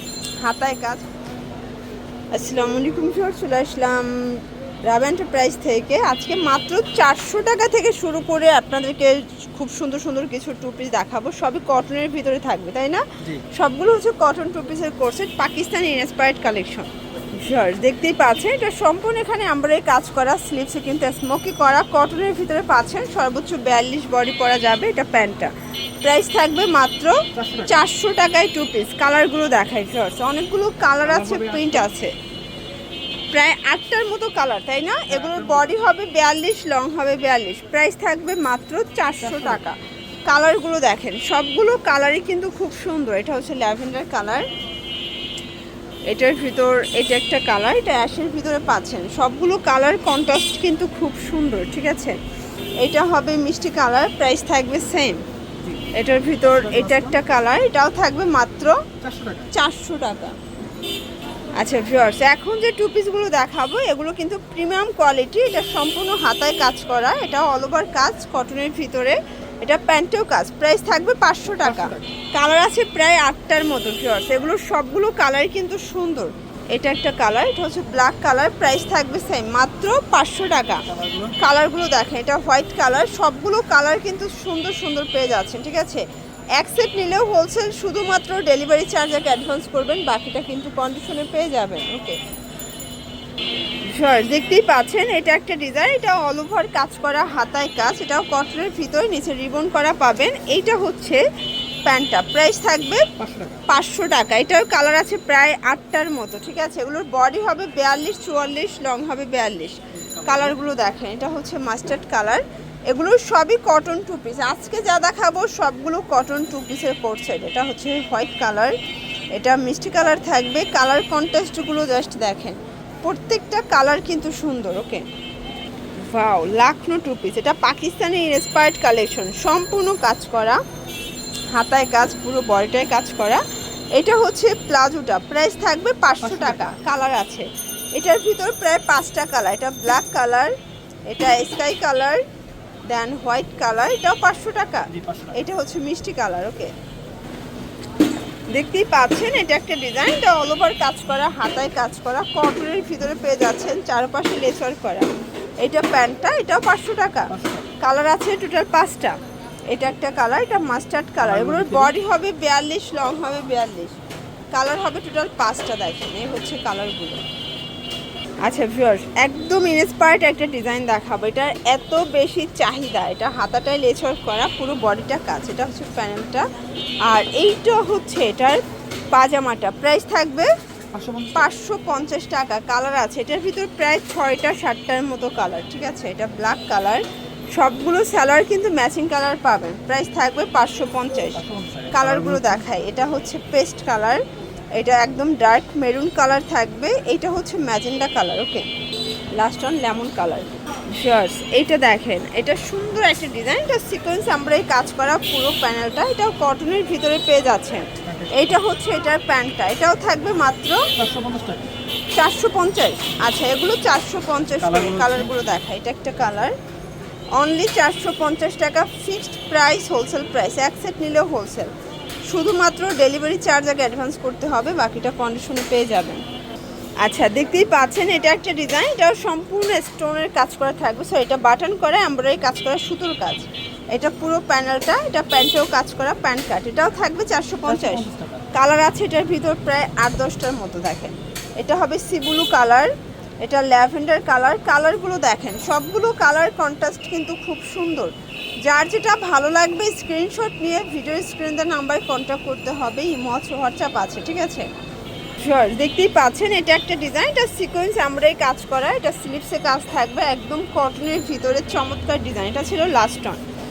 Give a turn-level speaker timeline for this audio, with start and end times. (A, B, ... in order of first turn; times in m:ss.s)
0:00.4-0:01.1 A
0:02.3-0:32.1 A
0:27.3-0:27.9 B
0:31.0-0:31.9 B
0:33.3-0:44.5 A
0:35.1-0:35.7 B
0:39.2-0:39.6 B
0:46.1-0:52.2 A
0:52.8-0:55.2 A
0:55.9-0:58.8 A
0:56.5-0:57.2 B
0:59.0-0:59.5 B
0:59.5-1:00.4 A
1:01.6-1:20.9 A
1:11.6-1:12.1 B
1:20.9-1:21.4 B
1:21.4-1:26.0 A
1:26.6-1:32.2 A
1:33.8-1:41.2 A
1:41.8-1:43.1 A
1:43.2-1:43.6 B
1:43.7-1:58.8 A
1:50.2-1:50.6 B
1:59.3-2:05.1 A
2:06.0-2:10.6 A
2:11.5-2:20.5 A
2:16.2-2:16.8 B
2:21.1-2:22.2 A
2:22.9-2:26.7 A
2:24.9-2:25.4 B
2:28.5-2:39.2 A
2:37.3-2:37.7 B
2:39.7-2:44.0 A
2:41.2-2:42.0 B
2:44.5-2:47.2 A
2:48.4-2:56.5 A
2:57.0-2:58.6 A
2:59.1-3:00.5 A
3:00.9-3:01.5 B
3:01.4-3:14.2 A
3:11.4-3:12.7 B
3:14.7-3:18.7 A
3:19.3-3:30.9 A
3:28.0-3:28.6 B
3:31.0-3:31.7 B
3:32.1-3:36.6 A
3:34.6-3:35.4 B
3:37.3-3:41.7 A
3:42.3-3:46.2 A
3:47.0-4:02.9 A
3:57.7-3:58.5 B
4:03.4-4:08.1 A
4:08.6-4:14.7 A
4:15.4-4:23.4 A